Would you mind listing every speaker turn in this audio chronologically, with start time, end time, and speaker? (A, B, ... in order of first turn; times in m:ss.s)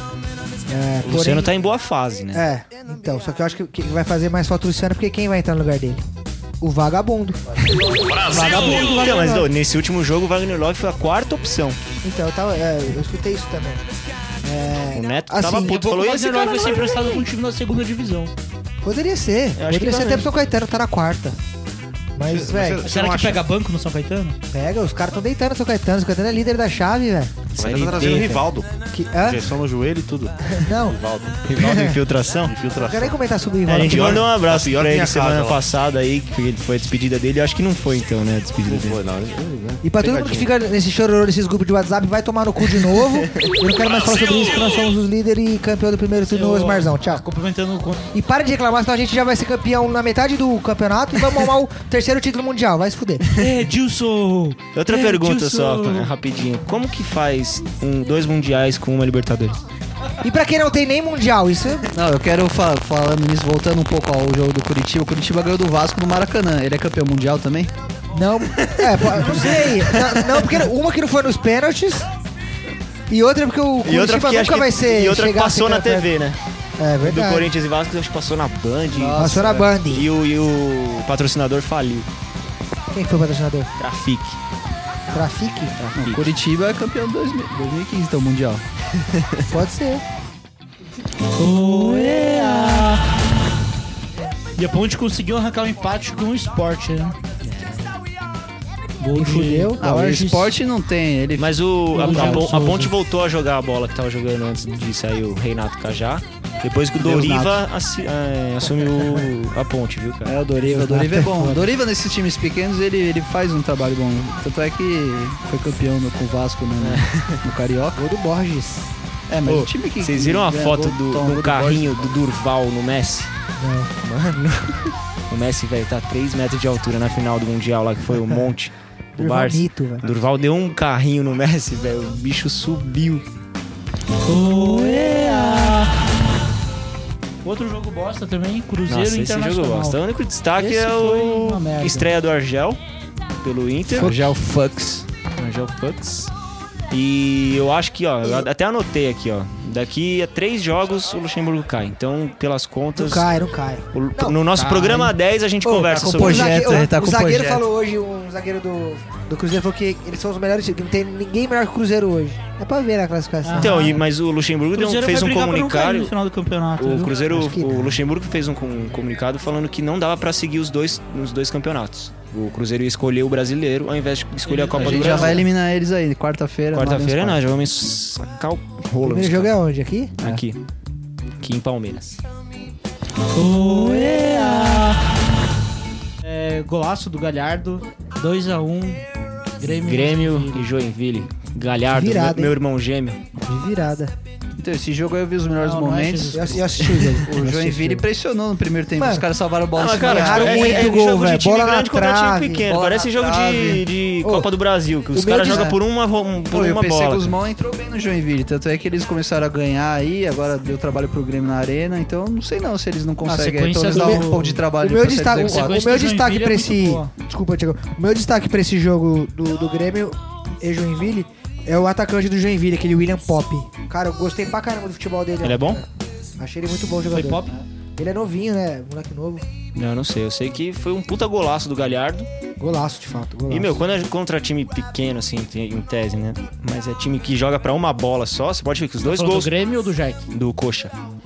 0:00.7-0:01.5 A
0:01.0-0:02.5 B
0:02.3-0:06.0 A
0:06.6-0:09.5 A
0:08.3-0:11.8 B
0:12.0-0:13.8 A
0:14.4-0:15.8 A
0:14.9-0:16.8 B
0:15.5-0:18.3 C
0:18.8-0:21.4 A
0:19.6-0:20.3 B
0:22.2-0:22.8 A
0:22.2-0:23.4 D
0:22.8-0:24.4 C
0:24.5-0:27.4 A
0:27.6-0:28.7 D
0:27.6-0:28.4 B
0:28.9-0:29.5 A
0:29.2-0:31.6 D
0:30.5-0:31.0 A
0:31.5-0:32.6 B
0:31.5-0:32.0 A
0:32.4-0:33.2 D
0:32.8-0:34.2 A
0:33.7-0:39.0 B
0:33.7-0:35.6 D
0:38.6-0:40.5 D
0:39.8-0:47.2 A
0:42.7-0:43.6 B
0:46.3-0:48.1 C
0:48.1-0:53.2 A
0:53.2-0:53.6 B
0:53.4-0:56.1 C
0:54.7-0:59.6 B
1:00.2-1:01.9 A
1:01.9-1:07.7 E
1:08.1-1:12.1 A
1:08.6-1:10.6 B
1:13.1-1:16.1 A
1:13.8-1:16.4 B
1:16.8-1:17.5 A
1:17.0-1:22.1 B
1:18.9-1:19.7 E
1:19.1-1:20.1 A
1:22.9-1:23.7 A
1:23.8-1:24.4 B
1:25.1-1:25.8 A
1:25.8-1:26.3 B
1:26.0-1:28.6 E
1:29.0-1:29.4 B
1:29.5-1:30.0 A
1:31.4-1:33.0 C
1:34.6-1:37.2 C
1:37.4-1:38.0 B
1:39.0-1:40.5 C
1:39.2-1:39.8 A
1:39.8-1:42.7 E
1:41.4-1:50.4 B
1:41.9-1:42.9 C
1:47.0-1:47.6 E
1:50.3-1:58.0 E
1:50.6-1:51.7 A
1:56.8-1:57.4 B
1:58.0-1:58.9 A
1:59.3-2:02.2 E
1:59.4-2:03.3 B
2:03.6-2:03.9 A
2:04.0-2:13.2 B
2:09.2-2:10.1 A
2:14.3-2:15.9 C
2:17.4-2:20.0 C
2:18.9-2:22.8 B
2:20.6-2:22.1 C
2:23.4-2:24.4 B
2:24.0-2:25.0 E
2:24.0-2:24.3 A
2:25.2-2:26.3 B
2:26.9-2:33.3 B
2:33.0-2:35.0 A
2:33.9-2:36.9 B
2:34.6-2:35.1 C
2:35.7-2:37.6 E
2:36.0-2:44.0 A
2:43.4-2:44.0 C
2:43.6-2:46.1 B
2:44.7-2:47.1 C
2:46.8-2:55.5 B
2:47.2-2:48.0 A
2:54.5-2:55.4 C
2:54.7-2:57.4 E
2:56.7-2:59.6 B
2:59.0-3:00.2 A
3:00.2-3:00.6 B
3:01.4-3:02.2 B
3:03.3-3:05.0 C
3:06.2-3:09.0 C
3:09.6-3:10.7 C
3:09.8-3:13.2 B
3:11.9-3:12.6 A
3:13.5-3:14.1 A
3:14.6-3:16.6 E
3:15.6-3:16.7 C
3:16.3-3:18.1 A
3:17.2-3:21.0 E
3:19.0-3:19.3 A
3:19.8-3:27.4 B
3:19.9-3:22.7 A
3:22.7-3:23.8 E
3:24.2-3:24.5 A
3:25.1-3:25.8 A
3:25.4-3:25.8 E
3:26.5-3:35.8 E
3:33.2-3:34.6 C
3:33.9-3:45.9 A
3:35.3-3:37.1 C
3:45.4-3:45.8 B
3:46.4-3:47.4 A
3:47.1-3:47.6 C
3:48.0-3:49.4 A
3:49.8-3:52.3 B
3:52.6-3:53.9 A
3:53.5-3:59.5 B
3:59.0-4:00.3 C
4:00.3-4:00.9 B